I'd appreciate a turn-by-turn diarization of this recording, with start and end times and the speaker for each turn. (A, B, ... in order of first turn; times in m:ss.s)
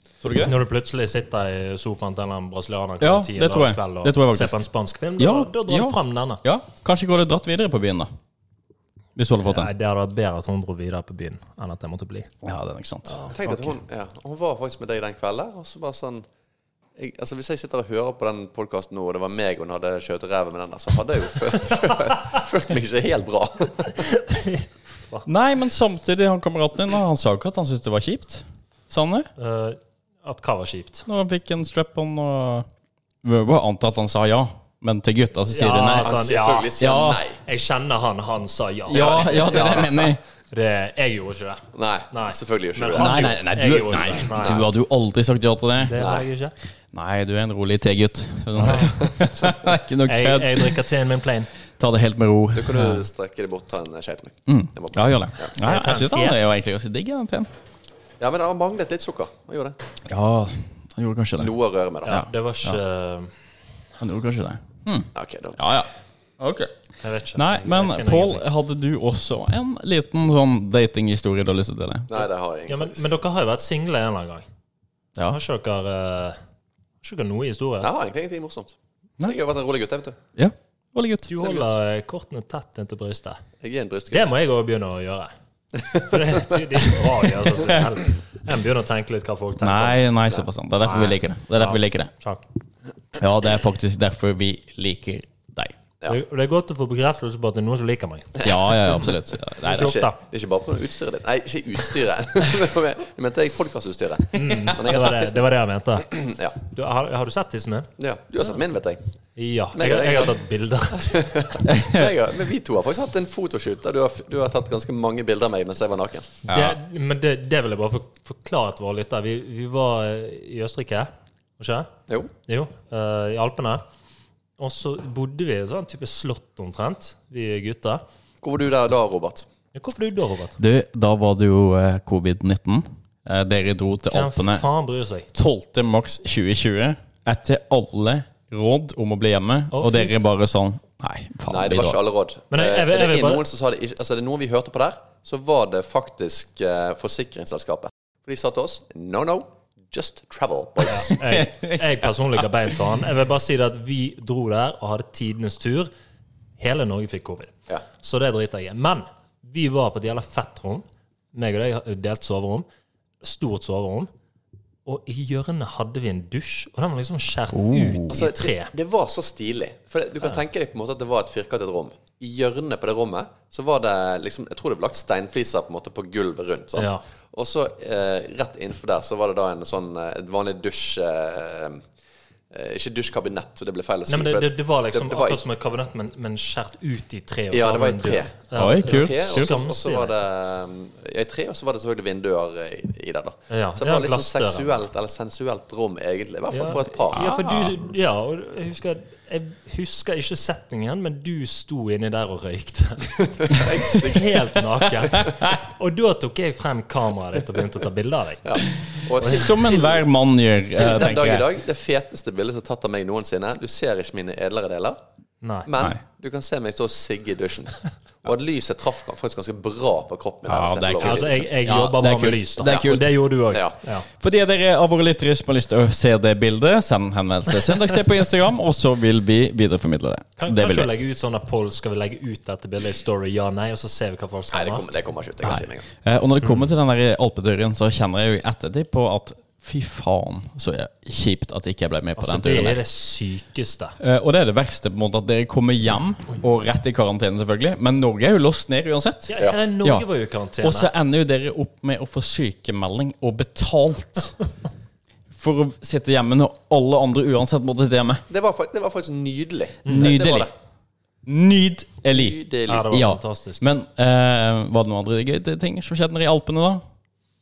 0:00.2-0:00.5 A
0:00.4-0:06.4 B
0:03.0-0:04.6 A
0:05.2-0:08.1 A
0:09.2-0:09.7 A
0:09.4-0:12.3 B
0:12.4-0:13.2 A
0:13.1-0:13.4 B
0:13.3-0:16.2 C
0:17.0-0:24.0 C
0:24.0-0:25.3 B
0:25.2-0:29.3 A
0:29.4-0:31.0 B
0:31.1-0:32.7 A
0:33.2-0:36.1 A
0:35.5-0:39.9 B
0:36.0-0:37.4 C
0:36.8-0:37.2 A
0:38.9-0:40.2 A
0:38.9-0:40.1 C
0:40.5-0:44.7 B
0:41.7-0:43.4 C
0:42.9-0:46.0 A
0:44.3-0:44.6 C
0:45.8-0:46.5 B
0:46.0-0:46.2 C
0:46.9-0:50.8 A
0:48.6-0:49.0 B
0:50.0-0:51.5 B
0:51.8-0:53.0 A
0:52.5-0:55.6 C
0:54.5-0:57.5 A
0:55.6-0:56.4 B
0:58.2-0:59.8 C
1:00.1-1:01.5 A
1:01.4-1:02.2 C
1:02.0-1:03.3 B
1:02.1-1:02.8 A
1:04.0-1:06.7 A
1:05.1-1:05.6 C
1:07.0-1:08.4 B
1:07.3-1:12.1 A
1:12.1-1:13.1 C
1:12.7-1:14.4 B
1:15.3-1:16.4 B
1:17.0-1:17.9 B
1:17.8-1:20.2 C
1:20.4-1:21.3 A
1:21.3-1:23.4 B
1:23.6-1:24.3 C
1:24.1-1:25.3 B
1:25.8-1:26.6 C
1:25.9-1:30.0 B
1:29.6-1:32.1 A
1:30.8-1:32.4 B
1:33.2-1:35.7 A
1:36.1-1:38.4 B
1:38.4-1:39.1 C
1:38.4-1:40.0 A
1:39.6-1:40.2 B
1:39.6-1:45.4 C
1:44.3-1:47.9 B
1:46.1-1:46.6 C
1:48.0-1:49.0 C
1:49.4-1:51.3 B
1:49.8-1:50.4 C
1:50.9-1:56.3 C
1:51.7-1:52.1 A
1:56.4-2:01.9 B
1:56.5-1:56.8 A
2:02.5-2:03.8 B
2:04.6-2:08.0 B
2:08.4-2:09.4 C
2:09.7-2:10.6 B
2:10.6-2:14.6 A
2:14.1-2:15.3 B
2:15.3-2:22.0 A
2:19.7-2:20.1 B
2:21.5-2:31.2 C
2:22.5-2:23.4 B
2:30.9-2:35.9 B
2:31.1-2:32.7 A
2:36.6-2:42.6 B
2:43.2-2:44.1 B
2:44.8-2:48.7 B
2:47.5-2:48.2 A
2:48.1-3:01.8 C
2:56.8-2:57.0 B
3:02.5-3:05.4 C
3:04.1-3:10.1 B
3:07.5-3:17.3 C
3:08.6-3:09.5 A
3:13.5-3:14.8 B
3:16.5-3:28.4 B
3:17.1-3:17.7 A
3:23.3-3:24.6 C
3:25.1-3:25.6 A
3:28.4-3:30.0 C
3:29.2-3:31.5 A
3:29.2-3:29.5 B
3:30.7-3:35.0 C
3:35.4-3:35.7 B
3:35.6-3:41.5 C
3:40.5-3:43.2 A
3:41.0-3:44.1 B
3:42.6-3:42.9 C
3:43.5-3:43.8 C
3:44.2-3:50.9 A
3:50.4-3:54.8 B
3:54.5-3:55.8 C
3:55.4-4:02.8 A
4:02.2-4:04.0 B
4:04.0-4:10.0 A
4:09.3-4:10.9 B
4:10.6-4:14.4 A
4:15.3-4:18.2 A
4:18.3-4:20.5 C
4:19.8-4:20.2 B
4:19.9-4:20.5 A
4:21.2-4:26.8 A
4:22.1-4:23.0 C
4:22.7-4:23.6 B